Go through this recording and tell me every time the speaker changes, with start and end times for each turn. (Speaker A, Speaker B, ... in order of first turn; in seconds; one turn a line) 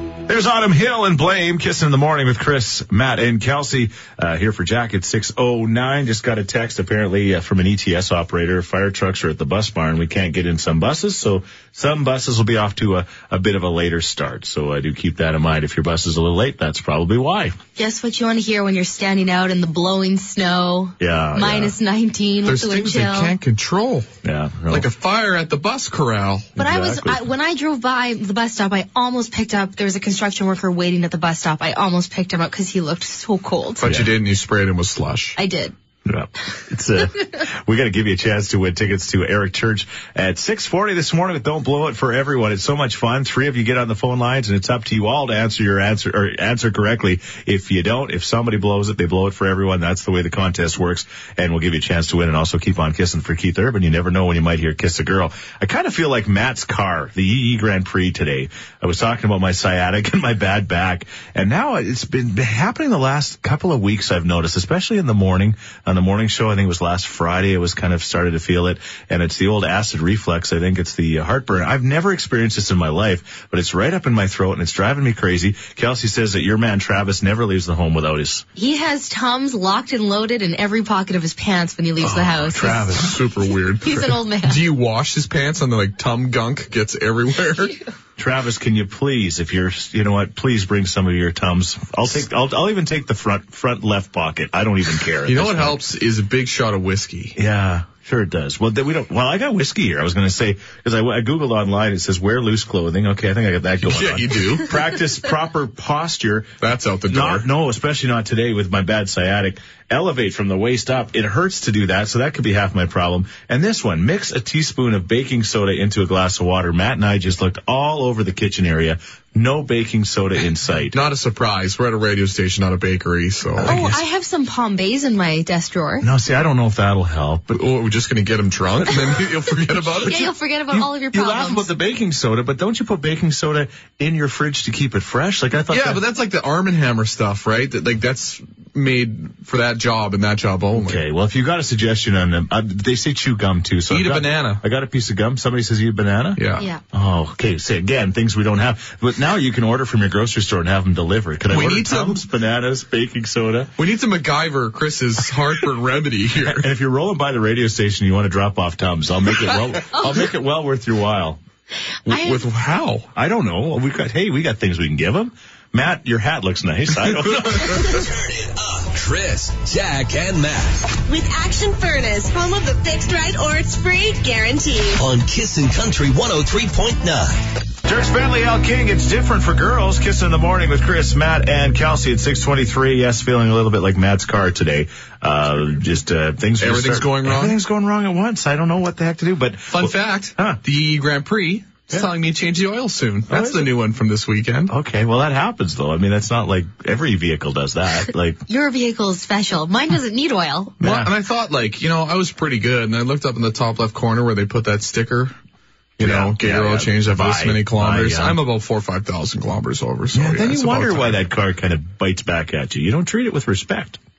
Speaker A: 0.3-17.6
Speaker B: 17.8-23.4
Speaker A: 21.0-21.8
Speaker C: 22.4-24.1
Speaker A: 24.2-24.9
Speaker C: 24.7-26.5
Speaker A: 26.6-27.2
Speaker B: 26.6-33.8
Speaker C: 33.8-35.4
Speaker A: 33.8-34.1
Speaker B: 35.4-35.7
Speaker A: 36.1-78.5
Speaker B: 78.6-83.0
Speaker A: 82.0-83.2
Speaker C: 82.9-87.8
Speaker B: 83.8-84.6
Speaker A: 88.2-95.8
Speaker C: 95.2-97.4
Speaker A: 97.4-106.6
Speaker C: 103.8-104.7
Speaker C: 106.6-107.5
Speaker A: 107.1-121.0
Speaker C: 120.9-123.7
Speaker A: 123.6-124.0
Speaker B: 123.7-126.1
Speaker A: 126.0-127.6
Speaker C: 127.5-130.3
Speaker B: 129.9-131.7
Speaker A: 130.7-136.0
Speaker C: 135.7-141.0
Speaker A: 140.8-153.7
Speaker C: 143.9-144.6
Speaker C: 146.4-146.7
Speaker C: 151.5-152.2
Speaker C: 153.8-156.7
Speaker A: 156.3-161.4
Speaker C: 162.1-163.1
Speaker B: 162.1-162.4
Speaker A: 163.2-168.0
Speaker D: 167.8-171.0
Speaker E: 171.1-175.0
Speaker D: 175.0-177.5
Speaker A: 177.8-190.6
Speaker C: 186.6-187.6
Speaker C: 189.7-194.7
Speaker A: 193.3-193.7
Speaker A: 194.7-198.4
Speaker B: 198.5-200.8
Speaker A: 200.8-201.1
Speaker C: 200.8-205.3
Speaker C: 206.0-211.2
Speaker A: 206.0-208.4
Speaker A: 210.1-214.0